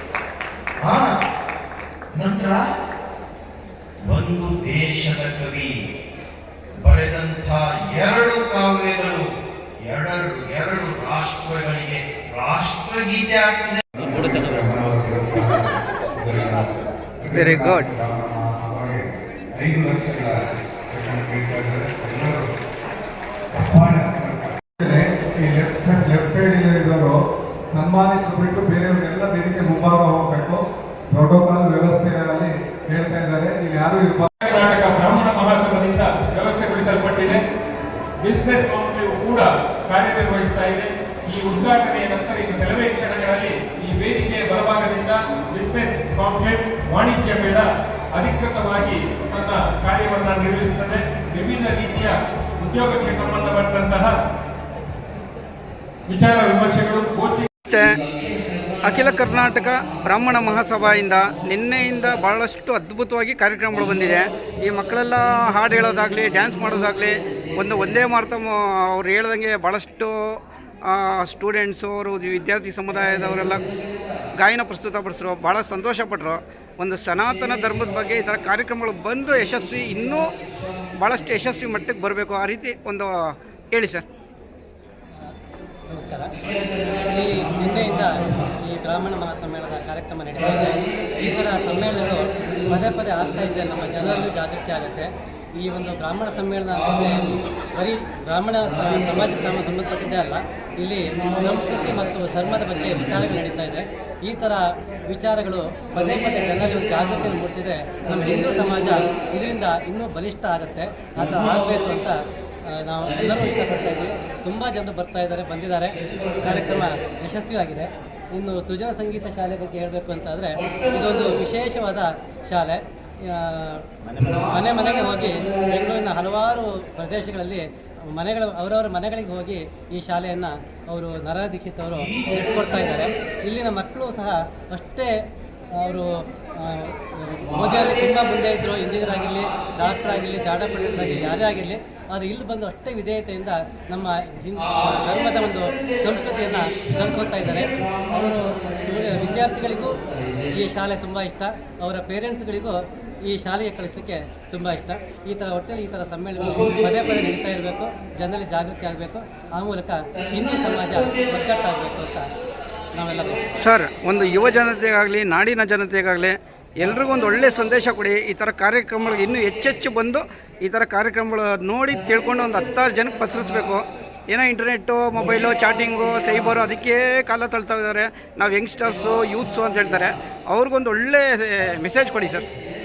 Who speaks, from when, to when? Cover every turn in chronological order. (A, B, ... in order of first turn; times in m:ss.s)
0:00.8-0:01.2 A
0:02.1-0:02.7 A
0:04.0-0:05.7 A
0:06.8-0:09.3 A
0:09.8-0:15.0 A
0:14.6-0:15.6 B
0:16.2-0:16.7 B
0:17.3-0:17.9 C
0:17.4-0:19.0 B
0:19.6-0:20.3 B
0:20.9-0:22.4 B
0:23.6-0:27.2 B
0:27.7-0:34.3 B
0:34.4-0:37.4 D
0:38.2-0:54.2 D
0:56.1-0:57.5 D
0:57.6-0:58.0 C
0:58.8-1:13.7 C
1:14.4-1:20.4 C
1:21.0-1:23.2 C
1:23.7-1:24.0 C
1:25.9-2:42.3 E
2:42.9-2:43.4 E
2:43.6-3:02.5 C